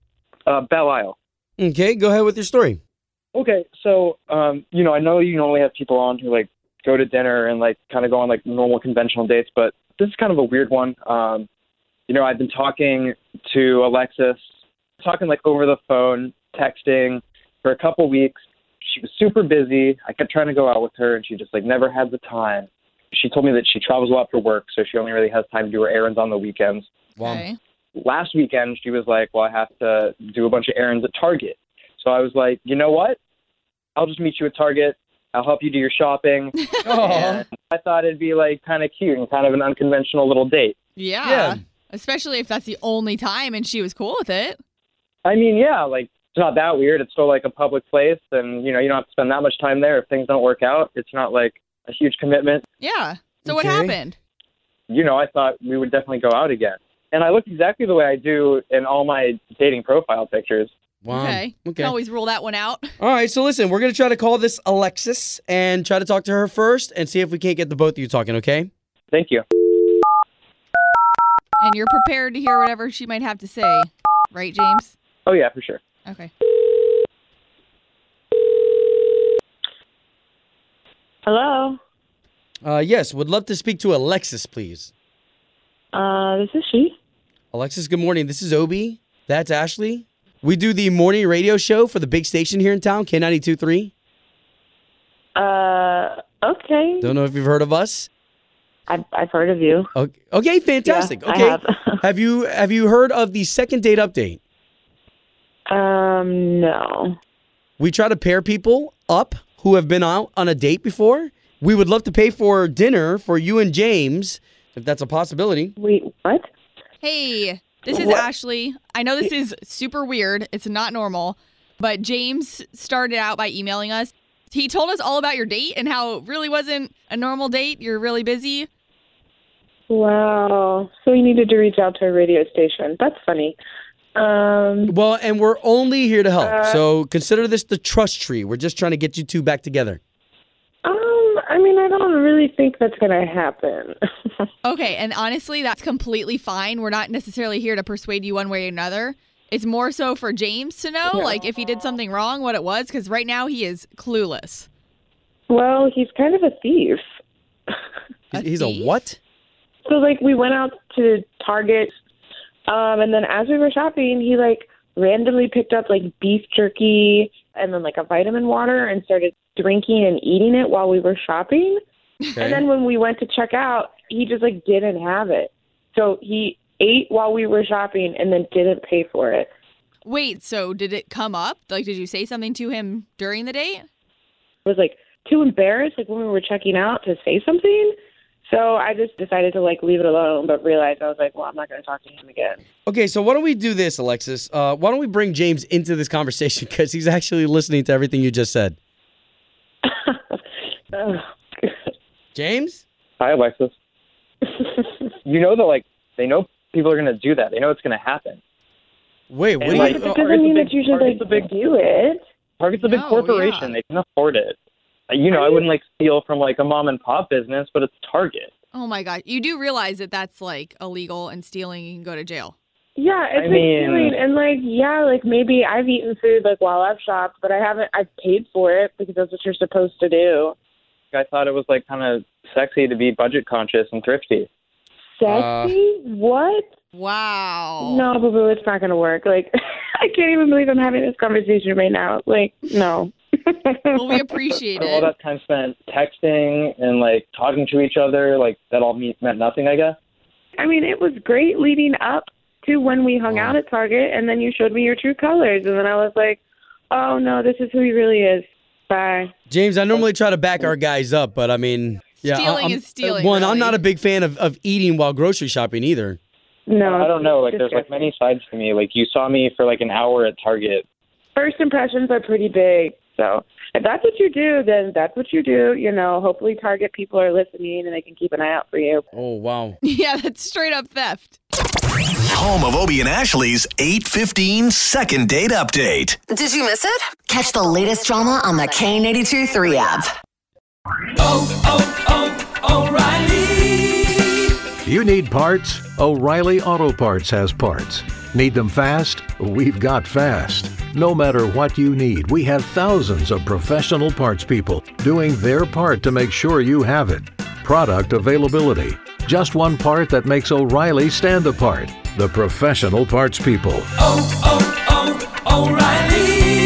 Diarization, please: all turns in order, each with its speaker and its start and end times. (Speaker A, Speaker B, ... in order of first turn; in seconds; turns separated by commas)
Speaker A: 0.5-1.1, Speaker B: 1.6-2.8, Speaker A: 3.3-11.5, Speaker A: 12.1-14.4, Speaker A: 15.0-18.3, Speaker A: 18.9-26.9, Speaker B: 27.2-27.4, Speaker C: 27.2-27.6, Speaker A: 28.0-33.2, Speaker A: 34.0-40.8, Speaker B: 36.8-37.4, Speaker C: 41.0-44.6, Speaker B: 41.2-41.6, Speaker A: 45.2-52.6, Speaker C: 52.8-54.1, Speaker B: 53.4-54.0, Speaker A: 54.9-60.7, Speaker B: 61.0-62.0, Speaker C: 61.1-62.8, Speaker B: 63.0-68.7, Speaker A: 69.1-69.4, Speaker C: 71.6-74.9, Speaker A: 75.2-75.8, Speaker C: 76.0-76.3, Speaker D: 81.2-81.8, Speaker B: 82.6-84.9, Speaker D: 85.9-86.9, Speaker B: 87.5-93.9, Speaker D: 95.3-97.1, Speaker B: 97.0-98.1, Speaker D: 98.9-99.9, Speaker B: 99.9-104.4, Speaker D: 100.8-102.0, Speaker D: 105.7-107.1, Speaker B: 107.8-115.7, Speaker D: 115.8-116.4, Speaker C: 117.0-128.7, Speaker D: 129.9-133.6, Speaker D: 134.1-134.9, Speaker B: 134.9-140.0, Speaker D: 136.4-136.8, Speaker D: 140.8-143.9, Speaker C: 144.6-154.7, Speaker D: 155.5-157.0, Speaker B: 158.3-159.2, Speaker C: 158.3-159.0, Speaker D: 159.8-161.9, Speaker D: 162.7-171.8, Speaker B: 172.3-172.7, Speaker D: 172.4-179.5, Speaker C: 180.0-183.8, Speaker D: 184.7-187.9, Speaker D: 188.4-192.6, Speaker B: 192.8-198.8, Speaker D: 199.8-200.4, Speaker D: 200.9-201.8, Speaker B: 202.3-202.8, Speaker A: 203.2-203.7, Speaker A: 205.2-208.4, Speaker B: 209.3-210.1, Speaker A: 209.6-211.5, Speaker D: 209.7-212.2, Speaker A: 212.6-214.6, Speaker C: 212.8-213.7, Speaker A: 215.1-218.5, Speaker D: 215.3-215.7, Speaker C: 218.7-222.5, Speaker D: 223.0-230.5, Speaker A: 223.3-224.2, Speaker A: 231.1-234.5, Speaker D: 235.2-236.7, Speaker B: 235.2-235.8, Speaker C: 236.9-238.0, Speaker D: 237.8-244.2, Speaker C: 243.9-245.1, Speaker A: 244.8-250.0, Speaker D: 250.6-259.3, Speaker B: 259.5-266.2, Speaker C: 262.2-263.8, Speaker D: 266.7-268.1, Speaker A: 266.8-270.8, Speaker D: 271.3-279.1, Speaker B: 279.1-279.8, Speaker C: 279.8-281.4, Speaker E: 282.3-286.2, Speaker F: 286.3-290.1, Speaker G: 294.8-313.9, Speaker G: 315.7-316.0